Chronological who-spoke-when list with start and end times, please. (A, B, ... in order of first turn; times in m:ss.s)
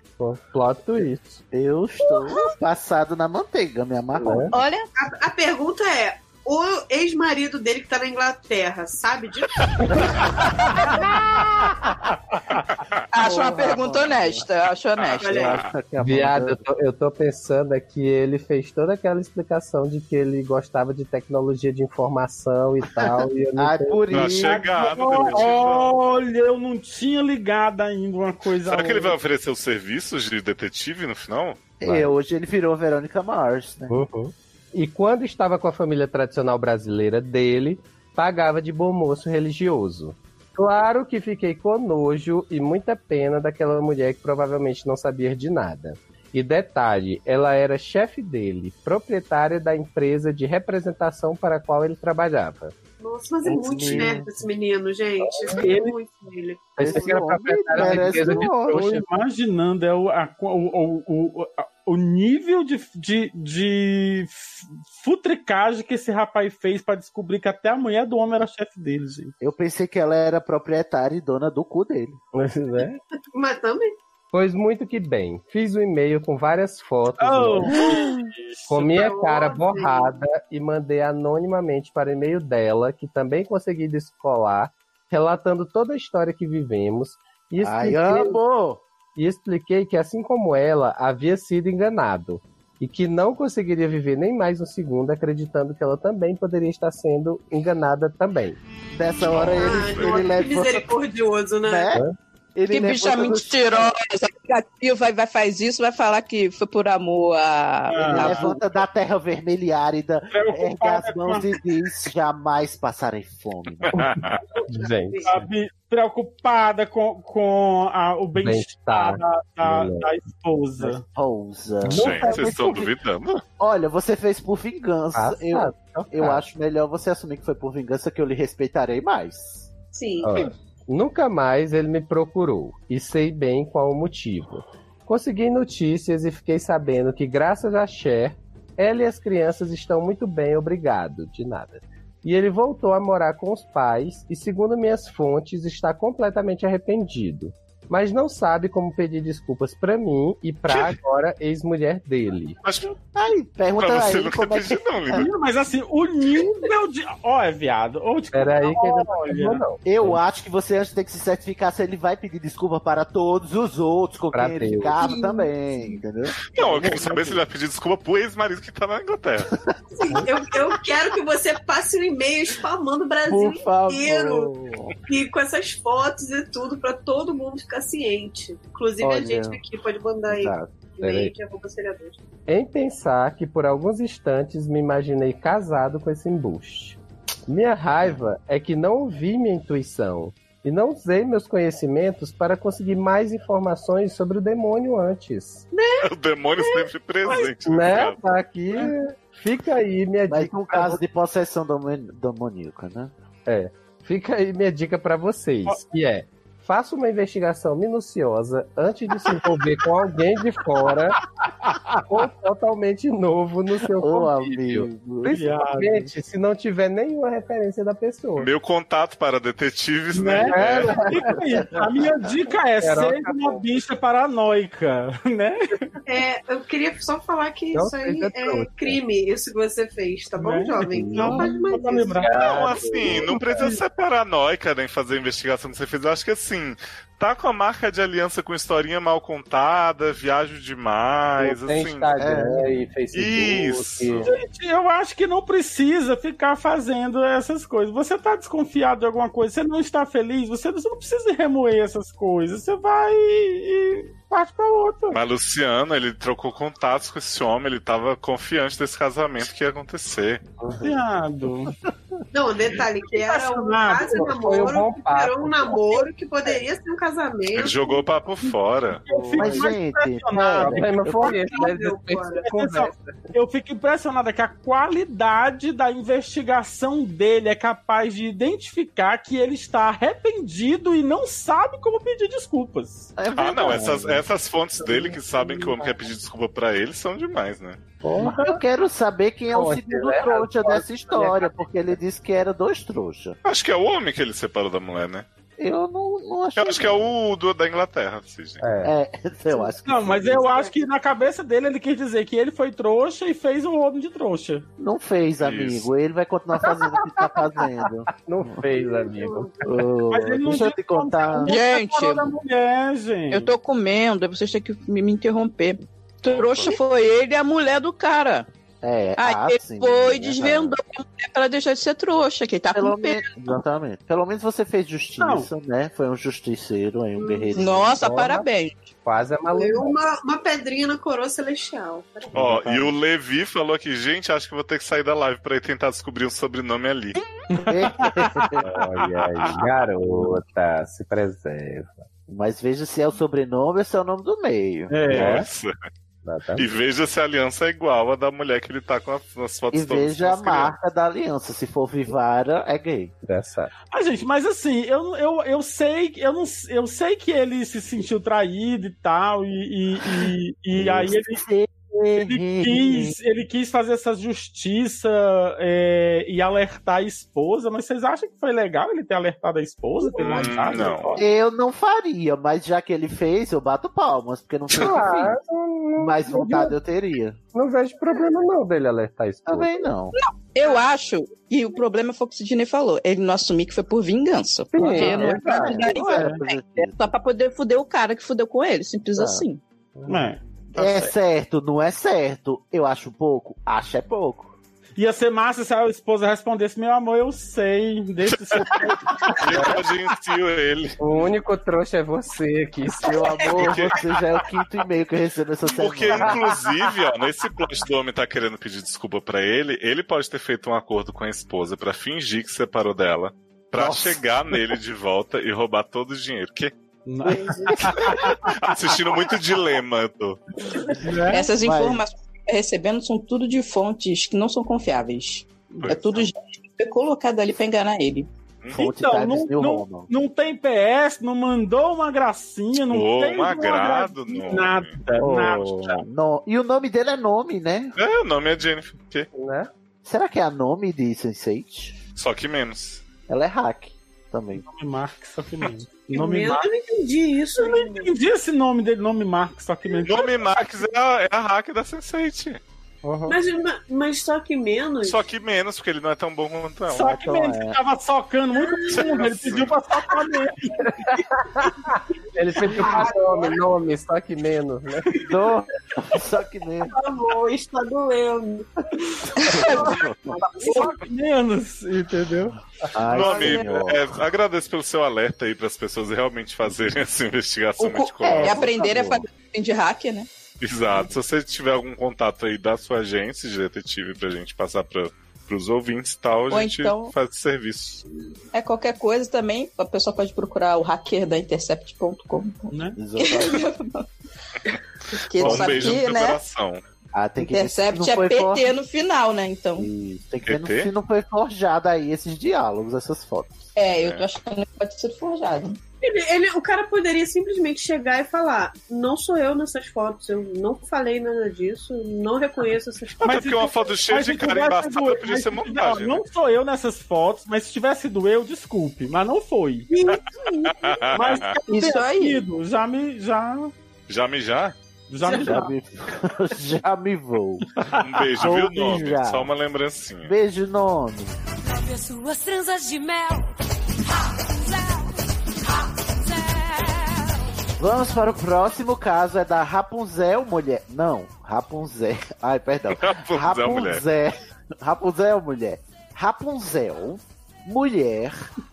0:00.2-0:01.4 A
0:01.5-0:04.5 B
0:02.0-0:02.3 C
0:04.1-0:04.5 A
0:04.5-0:04.9 C
0:05.0-0:09.6 D
0:13.1-0:15.5 C
0:13.2-0:14.4 B
0:15.2-0:15.6 D
0:15.2-0:16.6 B
0:16.0-0:24.4 A
0:23.0-0:24.6 B
0:24.1-0:26.0 E
0:24.4-0:29.2 F
0:28.6-0:31.6 E
0:31.8-0:34.0 B
0:31.8-0:32.1 A
0:33.9-0:52.7 A
0:53.0-0:57.2 D
0:53.5-0:54.2 A
0:53.6-0:54.2 B
0:55.2-0:55.9 A
0:56.8-0:59.0 A
0:56.8-0:58.9 B
0:57.8-1:09.3 F
1:09.4-1:12.2 B
1:12.3-1:13.0 A
1:13.3-1:13.9 D
1:14.3-1:18.0 A
1:17.2-1:18.9 F
1:17.8-1:18.1 B
1:18.7-1:28.4 A
1:18.8-1:20.1 D
1:27.6-1:28.8 B
1:29.2-1:38.6 A
1:38.9-1:40.9 B
1:39.3-1:40.2 E
1:39.5-1:41.9 D
1:41.6-1:43.9 B
1:42.7-1:48.6 C
1:47.9-1:48.5 F
1:48.1-1:54.0 B
1:50.3-1:51.5 F
1:53.8-1:54.4 E
1:54.6-1:55.4 D
1:54.7-1:55.4 A
1:55.2-2:01.0 F
1:58.4-2:00.1 A
2:01.1-2:02.9 B
2:01.8-2:02.6 A
2:01.9-2:03.4 E
2:03.6-2:09.7 B
2:05.1-2:06.4 A
2:09.9-2:10.5 D
2:10.2-2:32.6 A
2:30.7-2:31.0 E
2:32.6-2:32.9 E
2:33.1-2:34.8 B
2:33.8-2:35.3 E
2:35.1-2:39.6 F
2:38.3-2:40.2 A
2:39.8-2:46.4 B
2:44.3-2:45.0 A
2:45.0-2:46.0 D
2:46.5-2:49.5 E
2:46.6-2:47.4 F
2:49.9-2:54.5 D
2:53.2-2:54.9 B
2:55.1-3:02.2 D
2:59.0-2:59.6 B
3:00.3-3:00.7 B
3:01.0-3:01.3 A
3:02.5-3:15.6 A
3:15.7-3:17.5 D
3:16.0-3:18.2 E
3:17.6-3:21.0 A
3:20.3-3:23.1 B
3:23.5-3:31.2 A
3:32.1-3:38.5 A
3:34.0-3:35.4 B
3:35.3-3:36.0 F
3:38.4-3:41.0 E
3:40.1-3:45.8 F
3:40.5-3:41.4 A
3:42.8-3:43.7 A
3:46.0-3:52.4 D
3:47.7-3:49.0 A
3:50.4-3:52.4 F
3:50.9-3:51.6 A
3:52.2-3:53.7 A
3:52.3-4:02.1 E
4:01.4-4:04.3 A
4:02.2-4:02.6 B
4:03.1-4:04.3 E
4:04.2-4:15.2 F
4:15.1-4:20.4 E
4:20.8-4:21.7 F
4:22.3-4:28.0 D
4:23.2-4:24.3 F
4:24.1-4:26.0 A
4:27.5-4:29.0 E
4:29.0-4:31.3 F
4:29.1-4:29.7 A
4:29.4-4:31.2 B
4:30.6-4:33.2 A
4:31.2-4:32.5 D
4:32.4-4:43.1 F
4:43.2-4:44.2 B
4:43.3-4:47.8 E
4:44.8-4:45.9 A
4:48.0-4:48.6 A
4:48.2-4:53.4 B
4:49.5-4:51.7 A
4:53.4-4:55.2 E
4:55.6-4:57.1 B
4:56.6-4:58.6 E
4:58.6-4:58.9 A
4:58.8-5:00.5 B
4:59.8-5:04.6 F
5:00.4-5:00.7 D
5:04.8-5:08.6 B
5:05.4-5:05.9 E
5:06.6-5:09.5 A
5:08.7-5:09.6 D
5:09.6-5:11.5 B
5:10.1-5:13.5 F
5:11.4-5:12.3 C
5:13.3-5:18.5 C
5:16.2-5:16.7 E
5:18.8-5:20.8 B
5:19.2-5:23.3 C
5:22.7-5:28.0 B
5:25.2-5:25.5 F
5:27.2-5:27.6 D
5:27.6-5:28.9 C
5:28.0-5:28.4 A
5:29.0-5:29.9 A
5:29.5-5:32.4 D
5:32.3-5:37.2 E
5:32.4-5:32.8 B
5:37.5-5:39.5 F
5:37.6-5:38.6 B
5:38.6-5:42.0 A
5:42.3-5:45.3 B
5:44.9-5:45.4 F
5:45.1-5:45.7 E
5:45.1-5:45.4 A
5:46.2-5:46.7 A
5:46.6-5:50.7 E
5:49.7-5:53.1 B
5:53.3-5:53.7 A
5:53.9-6:01.4 F
6:00.8-6:03.1 B
6:02.2-6:11.2 F
6:10.2-6:10.4 D
6:10.2-6:11.2 E
6:11.2-6:15.3 B
6:14.8-6:16.8 A
6:16.0-6:17.4 B
6:17.5-6:19.9 A
6:19.5-6:20.2 B
6:20.1-6:29.6 C
6:24.7-6:25.8 A
6:24.8-6:25.4 F
6:25.1-6:26.9 B
6:26.0-6:26.4 F
6:29.1-6:29.4 B
6:30.0-6:30.3 A
6:30.1-6:31.1 F
6:30.7-6:34.6 B
6:35.0-6:39.4 F
6:39.4-6:41.0 E
6:39.5-6:39.8 A
6:41.0-6:43.2 A
6:43.0-6:46.4 B
6:43.2-6:43.5 D
6:43.6-6:44.0 E
6:45.7-6:56.7 E
6:46.1-6:46.6 A
6:53.7-6:54.2 B
6:57.1-6:58.5 F
6:57.4-6:57.7 D
6:57.7-6:58.1 B
6:57.9-7:00.4 E
7:00.9-7:01.5 F
7:01.3-7:08.3 C
7:01.6-7:02.0 B
7:05.8-7:06.2 E
7:08.7-7:10.1 B
7:08.7-7:16.0 F
7:12.9-7:15.0 E
7:15.2-7:17.9 B
7:18.0-7:19.3 E
7:19.3-7:19.7 A
7:20.0-7:22.0 B
7:22.2-7:23.0 E
7:23.3-7:24.6 B
7:24.6-7:26.7 F
7:26.1-7:28.1 D
7:27.5-7:30.6 F
7:30.0-7:32.6 E
7:33.0-7:33.4 A
7:33.3-7:35.2 D
7:35.0-7:37.2 E
7:36.9-7:41.2 F
7:37.0-7:37.8 B
7:38.6-7:39.0 D
7:38.9-7:39.8 E
7:41.0-7:45.1 A
7:42.6-7:43.5 D
7:45.2-7:46.9 B
7:46.9-7:51.0 D
7:49.4-7:49.9 C
7:49.5-7:50.3 B
7:50.6-7:52.5 F
7:52.9-7:54.0 B
7:53.1-7:58.7 E
7:53.2-7:53.6 D
7:57.8-8:00.3 C
7:58.2-7:59.2 B
8:00.6-8:08.0 E
8:06.5-8:07.1 C
8:08.5-8:14.0 C
8:12.7-8:13.0 F
8:13.0-8:13.6 B
8:15.1-8:16.4 C
8:15.4-8:16.8 E
8:15.4-8:15.9 B
8:17.1-8:18.7 B
8:17.4-8:19.9 C
8:19.8-8:23.7 B
8:20.4-8:20.9 E
8:23.8-8:25.8 C
8:24.0-8:24.2 E
8:26.0-8:33.6 D
8:33.2-8:36.2 E
8:33.2-8:39.9 F
8:39.9-8:41.1 D
8:40.7-8:41.4 E
8:41.1-8:43.7 F
8:41.7-8:42.4 C
8:44.1-8:44.7 E
8:45.1-8:45.6 F
8:45.2-8:45.7 D
8:45.4-8:47.7 B
8:48.0-8:50.3 E
8:48.4-8:49.5 B
8:50.2-8:51.4 B
8:51.6-8:53.5 G
8:54.3-8:55.1 G
8:55.8-8:57.4 G
8:57.8-9:08.4 B
9:03.0-9:04.0 E